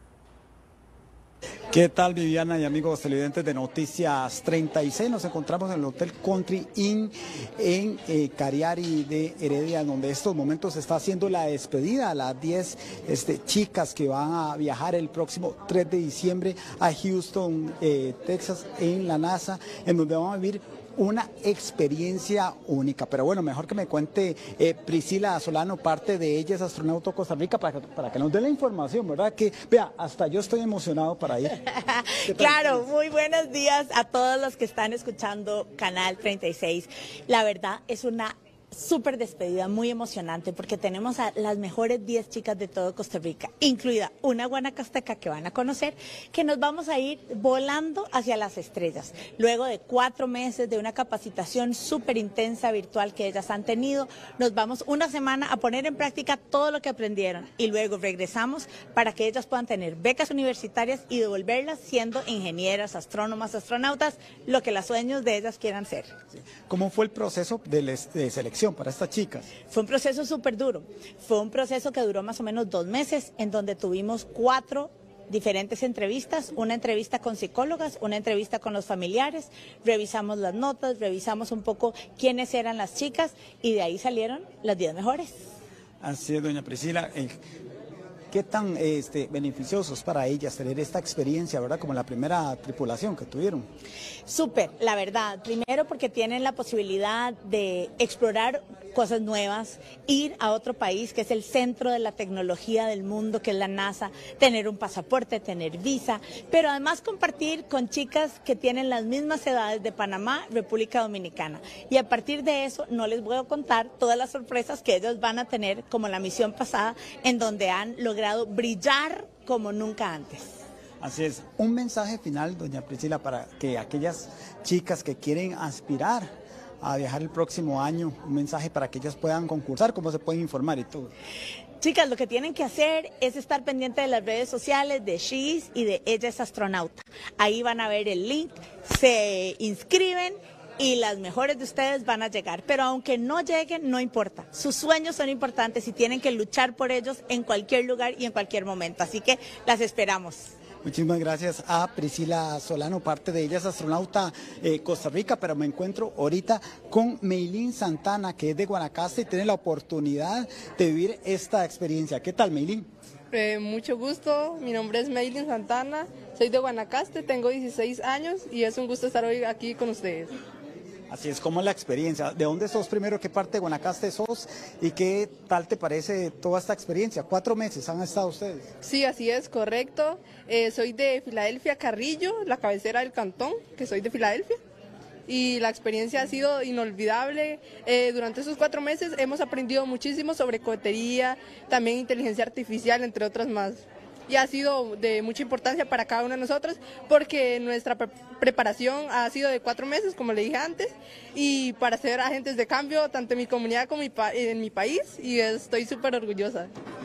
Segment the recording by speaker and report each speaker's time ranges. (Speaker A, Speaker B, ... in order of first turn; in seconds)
Speaker A: 1.7-31.6, 32.2-32.9, 66.6-69.5, 86.0-87.3, 88.3-93.7, 121.0-126.3, 126.8-131.1, 150.8-162.9, 171.1-178.7
Speaker B: 31.6-66.1, 69.7-85.4, 94.3-120.5, 131.8-150.5
Speaker C: 163.3-170.3, 178.8-184.6, 185.3-206.7